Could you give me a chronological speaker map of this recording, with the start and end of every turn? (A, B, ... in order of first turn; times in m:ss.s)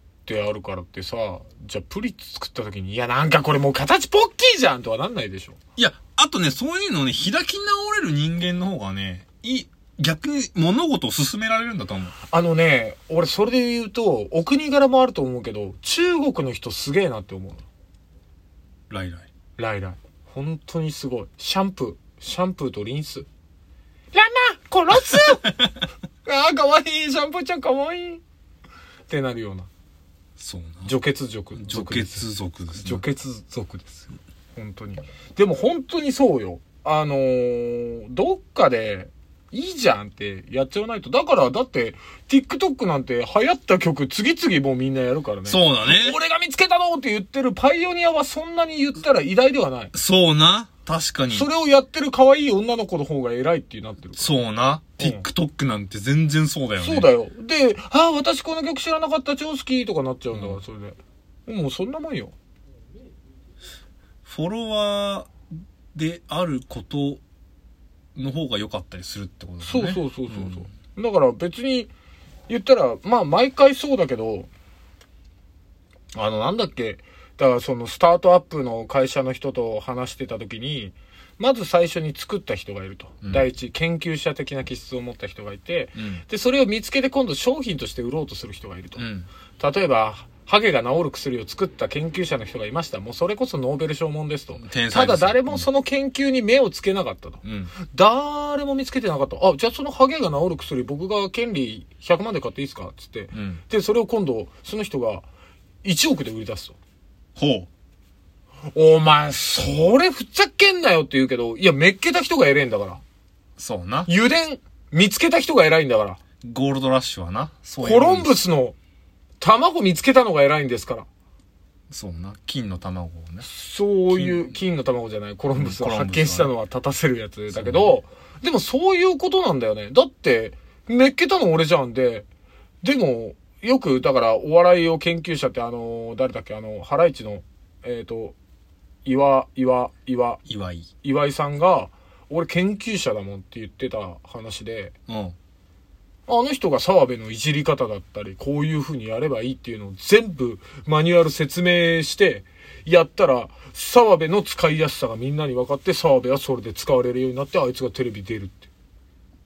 0:00.3-0:05.6 A
0:05.8-0:12.1 B
0:12.3-0:17.6 A
0:18.9-0:19.3 B
0:19.6-0:23.3 A
0:24.1-0:25.5 A
0:26.2-0:28.2 A
0:29.1-0:29.7 A
0:30.4-0:30.9 B
0:30.8-0:49.9 A
0:31.6-0:33.0 B
0:45.5-0:46.2 B
0:49.9-0:51.5 B
0:51.3-0:54.3 A
0:54.2-0:57.1 B
0:55.0-0:55.2 A
0:56.8-1:02.3 A
1:00.3-1:00.6 B
1:04.2-1:05.3 B
1:05.9-1:07.2 B
1:08.2-1:10.6 B
1:09.6-1:11.9 A
1:12.5-1:14.5 A
1:16.1-1:29.0 A
1:26.0-1:26.2 B
1:29.0-1:29.3 B
1:29.6-1:45.2 A
1:34.6-1:35.6 B
1:37.4-1:37.7 B
1:43.3-1:43.6 B
1:45.8-1:46.8 A
1:47.4-1:47.7 B
1:48.7-1:53.0 A
1:53.6-1:54.1 B
1:54.1-1:56.2 A
1:56.4-1:58.3 B
1:57.8-1:58.8 A
1:59.4-2:01.0 A
2:01.9-2:03.4 B
2:03.4-2:12.2 A
2:04.1-2:04.4 B
2:05.5-2:06.5 B
2:07.5-2:07.9 B
2:12.8-2:18.4 A
2:19.0-2:20.4 A
2:20.5-2:20.9 B
2:21.0-2:24.9 A
2:25.1-2:25.3 B
2:26.3-2:38.7 A